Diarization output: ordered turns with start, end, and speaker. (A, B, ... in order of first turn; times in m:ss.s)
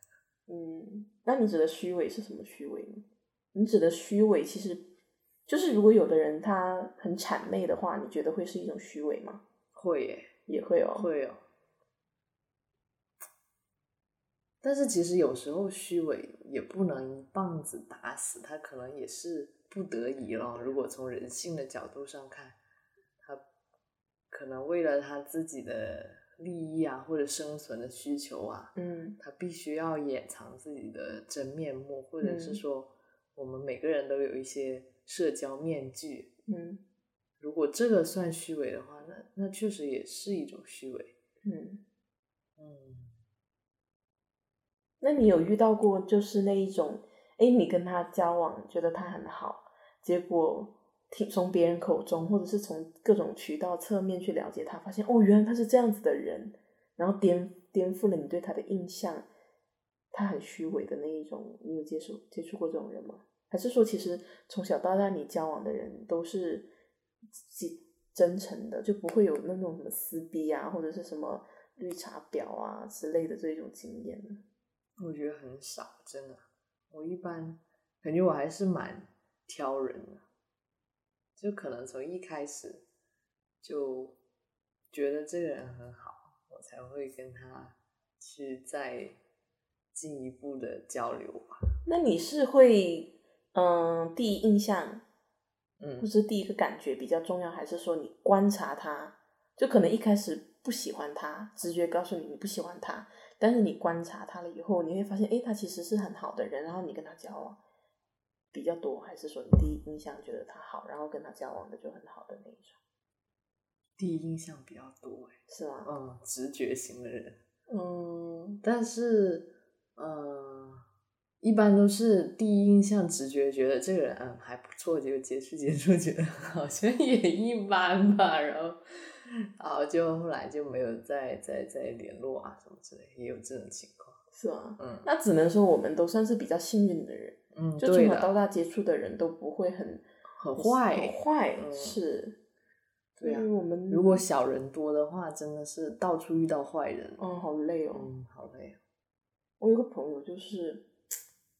0:00.5-0:04.8 A
0:05.5-0:09.4 A
0:09.7-0:10.3 B
0:10.5-0:11.1 A
0:10.9-0:11.4 B
0:14.6-0:22.6 B
0:24.3-0:36.3 B
0:28.8-0:29.2 A
0:32.2-0:32.6 A
0:36.5-0:36.8 A
0:37.4-0:41.1 B
0:41.4-0:41.8 A
0:42.6-0:43.2 B
0:45.0-0:59.3 A
1:00.1-1:06.7 A
1:07.4-1:14.4 A
1:15.0-1:20.2 B
1:21.4-1:22.8 B
1:23.6-1:24.2 B
1:24.9-1:29.2 B
1:29.9-1:31.6 B
1:31.8-1:35.0 A
1:35.8-1:36.1 B
1:36.0-1:47.6 A
1:48.5-1:52.8 A
1:54.0-1:57.4 B
1:55.5-1:55.9 A
1:57.7-1:58.6 A
1:58.6-2:00.8 B
2:01.4-2:14.2 B
2:14.3-2:20.0 A
2:14.8-2:15.1 B
2:17.5-2:18.3 B
2:20.4-2:22.0 B
2:20.6-2:22.4 A
2:23.2-2:27.2 B
2:23.2-2:24.2 A
2:27.2-2:28.1 A
2:27.9-2:28.8 B
2:29.6-2:30.9 A